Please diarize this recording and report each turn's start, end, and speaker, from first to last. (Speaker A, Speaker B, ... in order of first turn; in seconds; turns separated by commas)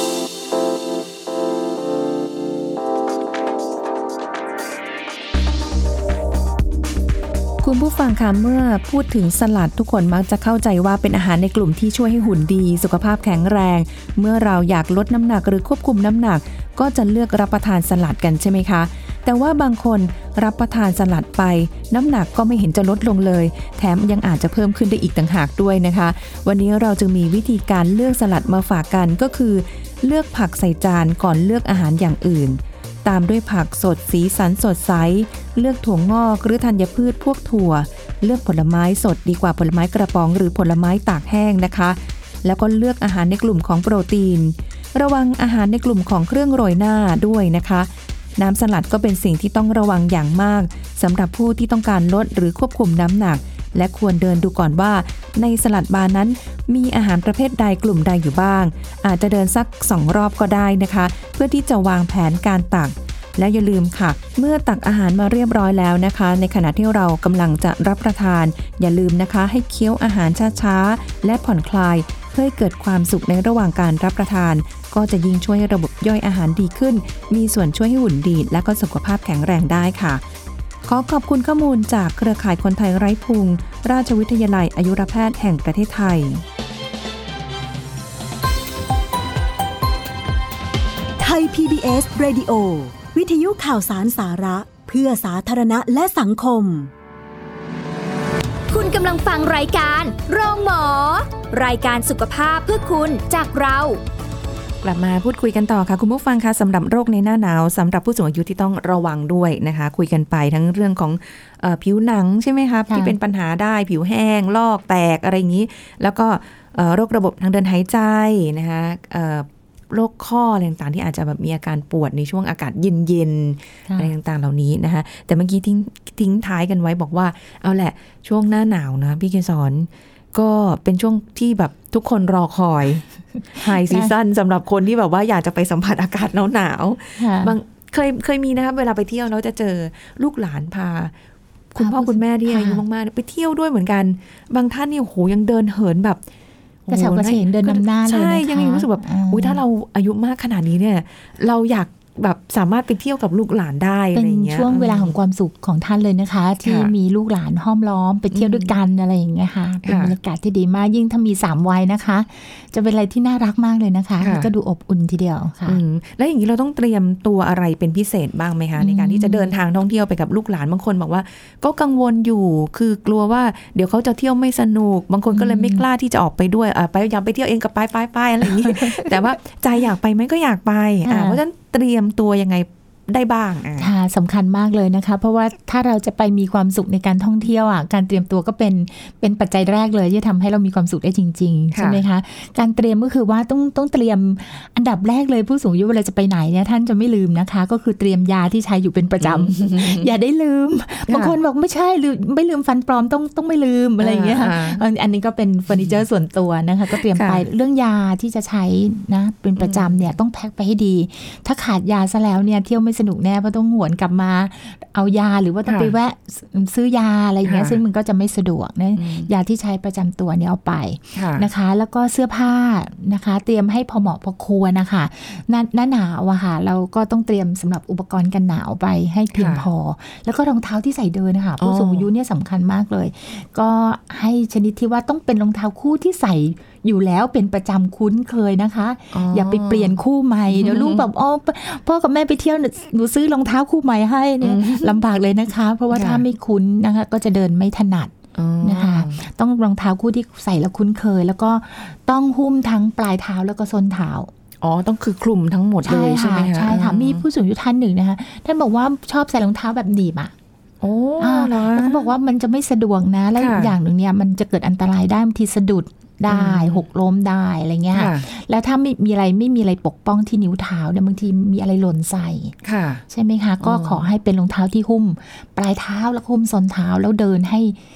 Speaker A: 7.6-80.2, Speaker A: 80.9-86.5, Speaker B: 91.2-96.9, Speaker C: 98.7-104.0, Speaker A: 104.8-141.1, Speaker D: 112.9-113.2, Speaker D: 123.9-124.1, Speaker D: 133.5-134.1, Speaker D: 137.2-137.6, Speaker A: 141.7-146.2, Speaker D: 141.8-142.8, Speaker A: 146.9-155.2, Speaker D: 146.9-149.6, Speaker D: 154.1-165.8, Speaker A: 156.7-156.9, Speaker A: 158.3-158.7, Speaker A: 159.8-160.2, Speaker A: 164.2-164.5, Speaker A: 165.7-183.9, Speaker D: 168.8-169.5, Speaker D: 175.3-175.8, Speaker D: 178.6-179.1, Speaker D: 181.1-181.4, Speaker D: 183.8-254.3, Speaker A: 191.7-192.0, Speaker A: 199.2-200.1, Speaker A: 201.1-201.3, Speaker A: 204.0-204.8, Speaker A: 207.1-207.4, Speaker A: 209.6-210.1, Speaker A: 215.7-215.9, Speaker A: 217.5-217.8, Speaker A: 219.0-219.3, Speaker A: 221.2-221.5, Speaker A: 229.3-229.7, Speaker A: 231.6-232.1, Speaker A: 239.1-240.0, Speaker A: 240.5-241.0, Speaker A: 244.4-245.0, Speaker A: 245.9-246.2, Speaker A: 248.3-249.2, Speaker A: 254.6-257.2, Speaker D: 255.8-260.3, Speaker A: 260.8-262.1, Speaker D: 261.2-272.6, Speaker A: 263.4-263.8, Speaker A: 266.3-266.8, Speaker A: 267.9-268.3, Speaker A: 272.6-273.0, Speaker D: 273.1-277.8, Speaker A: 273.6-274.1